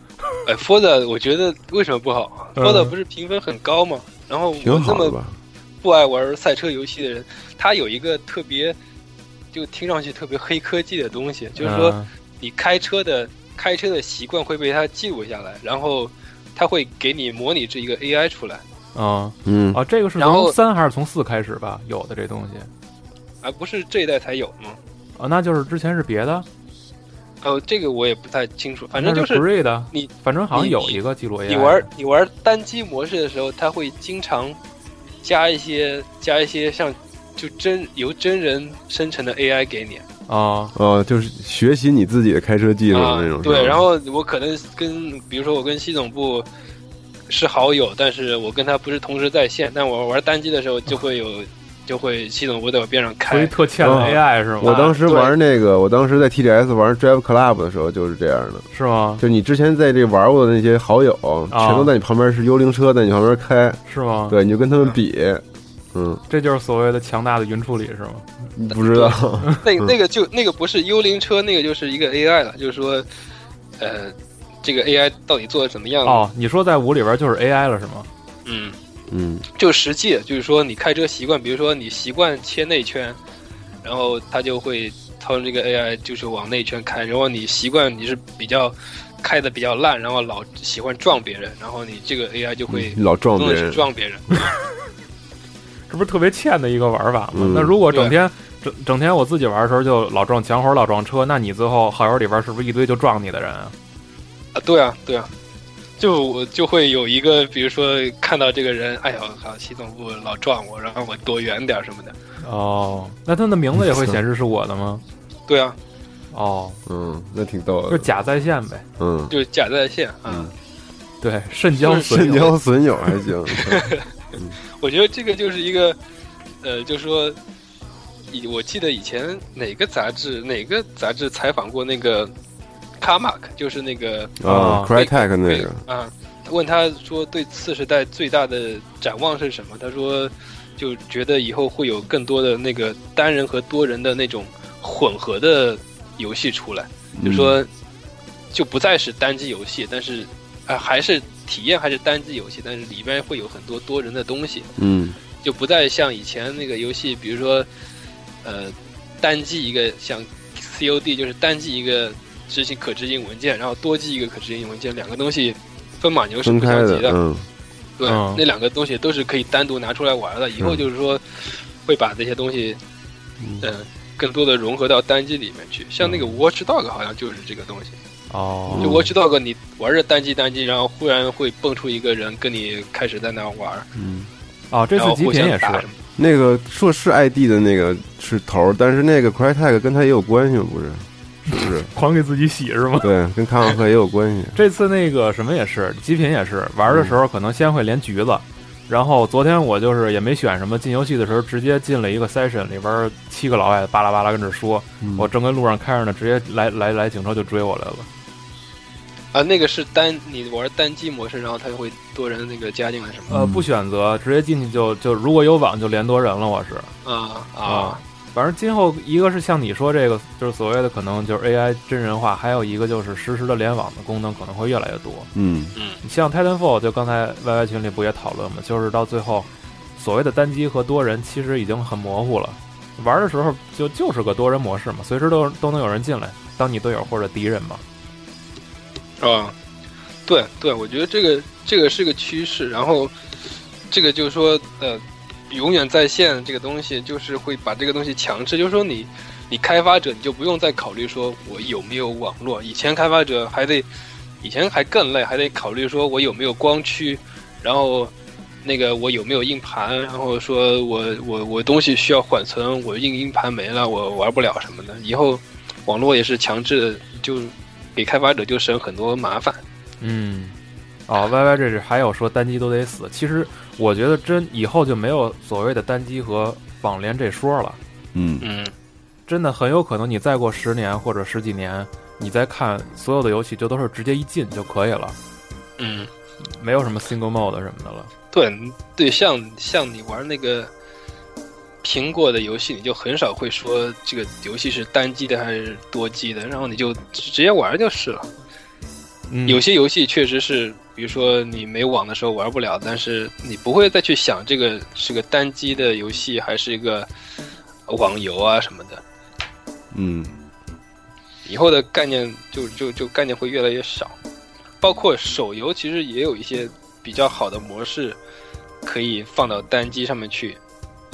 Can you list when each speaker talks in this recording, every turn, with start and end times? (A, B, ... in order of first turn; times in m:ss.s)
0:00.4-0:05.2 A
0:02.6-0:02.9 B
0:04.6-0:05.4 C
0:05.8-0:08.8 A
0:09.5-0:18.6 A
0:11.6-0:12.1 B
0:18.9-0:22.7 B
0:19.4-0:19.8 C
0:20.2-0:20.5 A
0:23.4-0:24.8 A
0:25.2-0:26.5 B
0:27.4-0:34.6 A
0:28.9-0:31.9 B
0:35.2-0:40.0 A
0:40.3-0:40.7 B
0:40.7-0:43.8 C
0:42.9-0:46.5 A
0:47.3-0:55.3 A
0:53.3-0:54.8 B
0:53.8-0:58.6 C
0:58.7-0:59.2 B
0:59.2-1:05.4 C
1:01.5-1:01.9 B
1:03.9-1:04.4 B
1:05.9-1:06.2 C
1:06.3-1:08.3 B
1:08.6-1:09.9 C
1:08.7-1:13.0 A
1:13.8-1:16.3 A
1:16.0-1:18.1 B
1:18.4-1:18.8 A
1:19.1-1:19.4 C
1:19.6-1:23.2 A
1:23.8-1:34.3 A
1:32.7-1:33.8 C
1:35.9-1:43.7 B
1:37.3-1:37.8 C
1:44.5-1:45.3 A
1:46.0-1:52.2 A
1:52.4-1:55.0 B
1:53.8-1:54.1 C
1:55.5-1:55.8 A
1:56.3-1:56.8 B
1:56.8-1:58.1 C
1:57.9-1:58.8 B
1:59.0-1:59.3 C
1:59.3-2:00.5 A
2:00.3-2:00.5 C
2:01.2-2:02.5 B
2:02.0-2:04.6 C
2:03.6-2:04.0 A
2:04.8-2:06.0 A
2:06.6-2:07.4 A
2:08.3-2:12.3 A
2:13.0-2:27.7 A
2:14.4-2:15.8 C
2:14.4-2:14.9 B
2:27.2-2:27.6 C
2:28.5-2:34.7 A
2:34.8-2:35.2 C
2:35.4-2:37.7 A
2:38.4-2:47.2 A
2:46.4-2:47.4 C
2:48.0-2:52.8 A
2:48.0-2:48.4 B
2:50.6-2:50.8 C
2:53.4-2:53.7 C
2:53.6-2:58.0 A
2:58.3-2:59.0 B
2:58.7-2:59.1 C
2:58.8-3:03.9 A
3:04.0-3:04.3 C
3:04.7-3:05.9 B
3:05.0-3:06.0 A
3:06.2-3:11.9 C
3:11.5-3:13.1 B
3:13.0-3:14.6 C
3:14.6-3:28.1 B
3:16.9-3:17.1 C
3:25.0-3:25.3 C
3:29.3-3:33.3 A
3:33.3-3:36.9 B
3:33.3-3:33.6 C
3:37.0-3:38.0 A
3:37.6-3:45.3 B
3:45.3-3:45.7 C
3:46.0-3:57.8 B
3:59.2-3:59.5 A
4:00.3-4:03.1 A
4:03.9-4:13.9 A
4:14.4-4:18.1 A
4:18.6-4:29.6 A
4:30.0-4:30.6 B
4:31.1-4:37.8 B
4:38.1-4:38.4 C
4:38.4-4:38.7 A
4:39.3-4:45.2 B
4:45.8-4:46.1 A
4:46.4-4:48.1 B
4:48.3-4:50.7 A
4:51.8-4:58.3 A
4:59.3-4:59.6 B
4:59.4-5:07.1 A
5:07.9-5:09.0 A
5:09.9-5:10.3 C
5:11.4-5:14.2 A
5:14.8-5:18.2 A
5:18.8-5:20.6 A